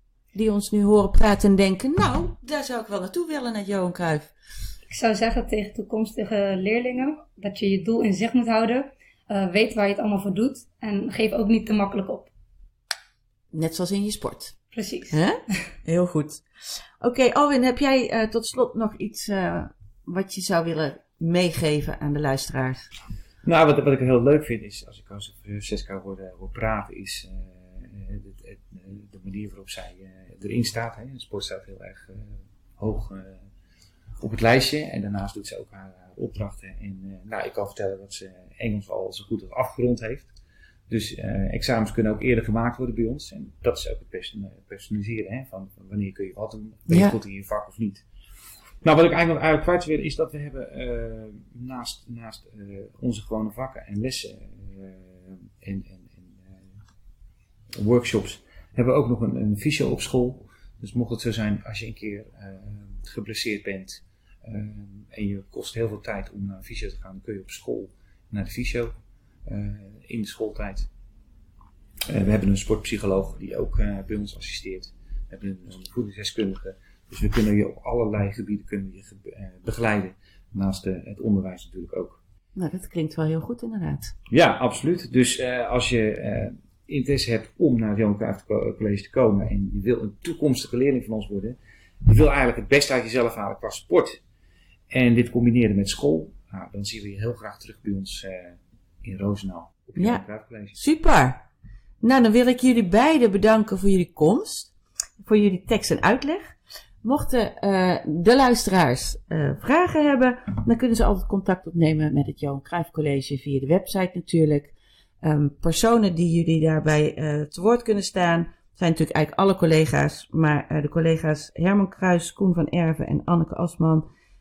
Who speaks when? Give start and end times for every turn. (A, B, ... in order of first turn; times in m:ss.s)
0:00.3-0:04.3 A
0:04.9-0:12.3 B
0:13.5-0:14.6 A
0:14.7-0:15.2 B
0:15.1-0:16.5 A
0:17.0-0:22.9 A
0:23.4-0:33.4 C
0:34.2-0:40.3 C
0:40.9-0:48.0 C
0:46.9-0:47.2 A
0:48.8-0:56.7 C
0:57.8-1:08.9 C
1:09.5-1:10.9 C
1:12.1-1:22.2 C
1:22.6-1:24.1 A
1:24.3-1:34.2 C
1:34.9-1:40.8 C
1:40.0-1:40.2 A
1:40.8-1:41.4 A
1:42.0-2:04.1 A